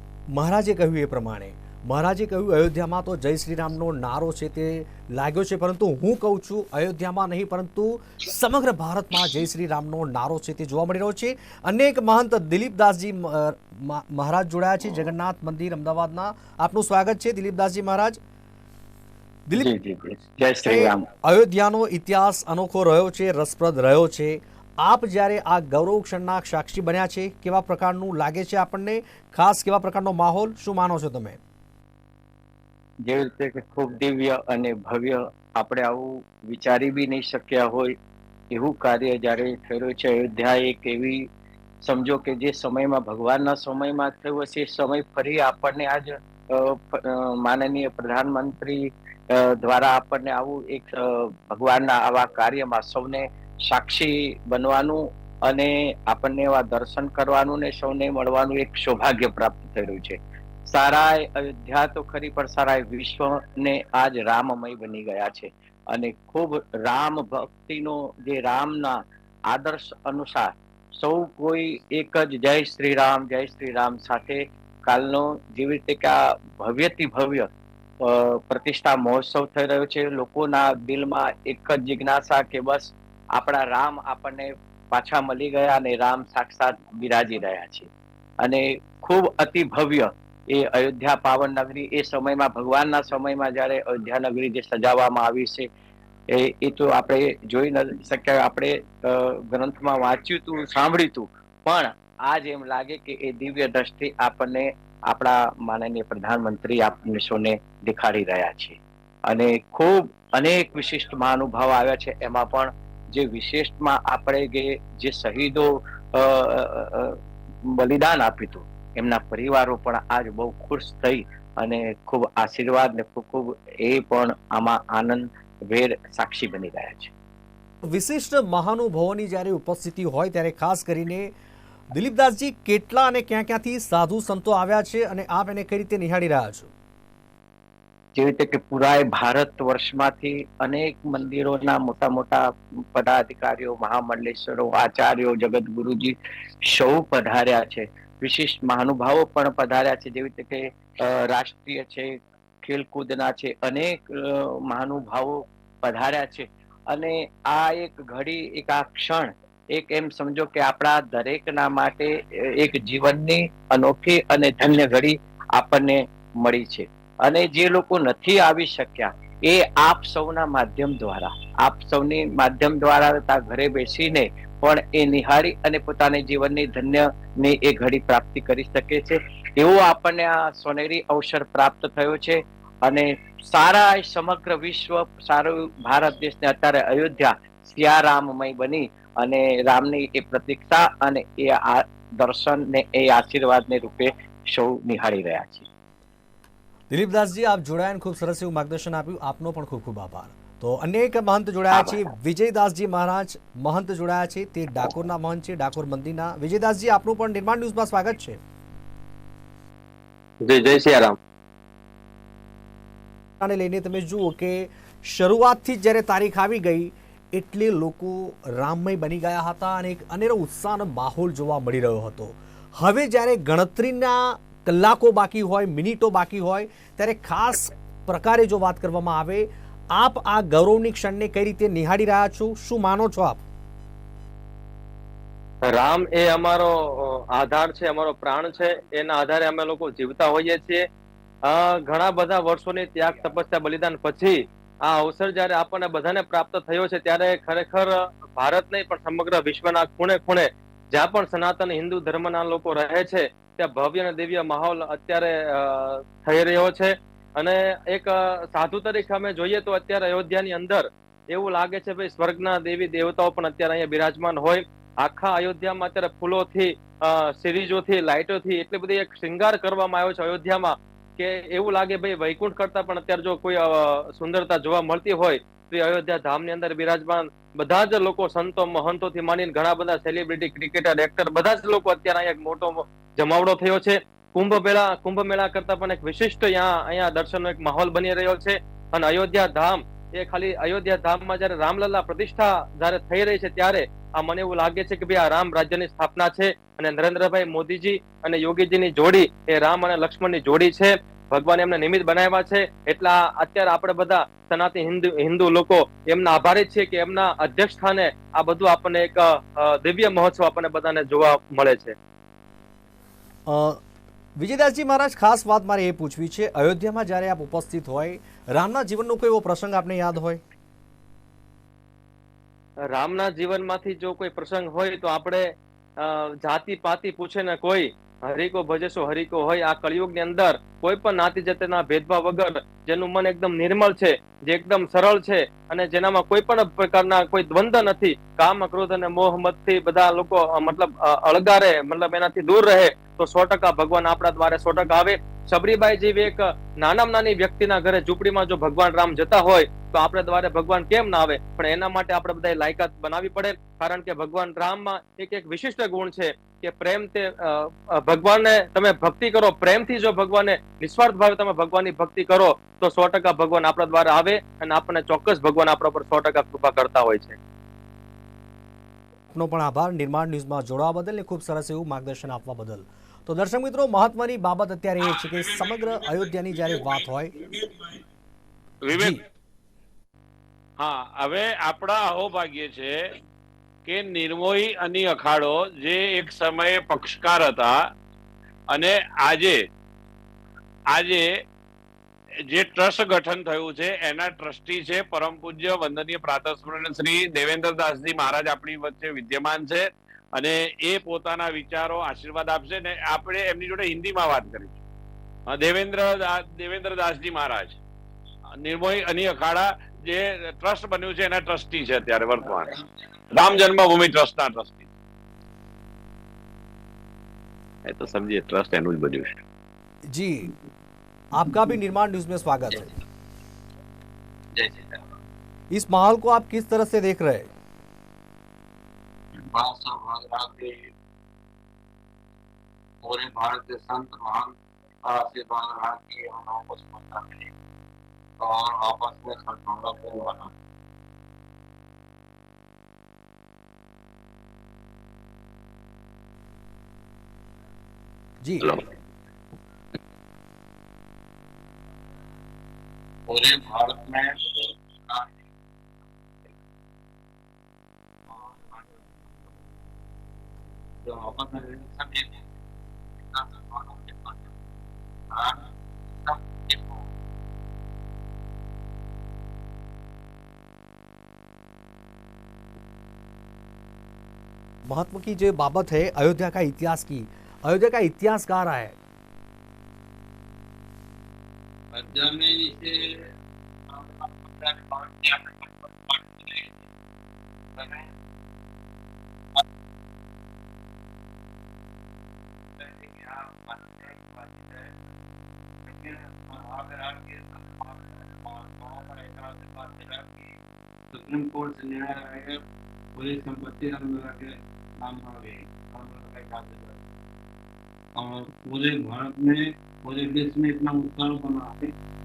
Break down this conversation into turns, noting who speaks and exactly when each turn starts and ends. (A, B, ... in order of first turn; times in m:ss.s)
0:00.3-0:18.2 A
0:19.6-0:21.1 B
0:20.7-0:31.4 A
0:33.0-0:38.0 B
0:38.5-0:41.3 B
0:41.8-1:17.5 B
1:18.0-1:27.9 B
1:28.4-1:35.7 B
1:36.3-1:48.8 B
1:49.3-2:07.1 B
2:07.8-2:11.3 A
2:11.9-2:16.7 A
2:18.2-3:15.7 B
3:16.9-3:28.4 A
3:21.7-3:22.0 B
3:30.6-3:31.1 B
3:33.4-3:53.4 A
3:55.6-4:00.9 C
4:01.4-5:12.0 C
5:13.5-5:13.8 A
5:14.4-5:20.4 A
5:22.9-6:07.4 C
6:09.3-6:17.3 A
6:18.8-6:19.2 D
6:18.9-6:19.2 A
6:20.8-6:22.9 D
6:23.9-6:27.8 D
6:28.7-6:29.6 D
6:30.9-6:31.4 D
6:32.5-6:44.8 D
6:45.5-6:47.8 D
6:48.6-6:52.7 D
6:53.3-6:54.9 D
6:57.9-6:59.3 E
7:00.1-7:00.5 A
7:01.3-7:02.9 A
7:04.6-7:05.0 E
7:05.7-7:07.5 A
7:09.4-7:10.9 E
7:13.0-7:14.5 E
7:15.0-7:17.5 E
7:18.4-7:20.5 E
7:28.4-7:28.8 A
7:33.3-7:35.3 E
7:38.3-7:38.9 E
7:41.0-7:42.4 E
7:43.3-7:44.5 E
7:45.3-7:45.7 E
7:46.2-7:47.1 E
7:54.9-7:59.0 A
8:01.9-8:03.3 E
8:03.9-8:06.8 E
8:07.8-8:08.1 E
8:12.8-8:14.9 E
8:15.9-8:20.5 E
8:21.1-8:22.6 E
8:23.2-8:27.0 E
8:28.2-8:31.9 E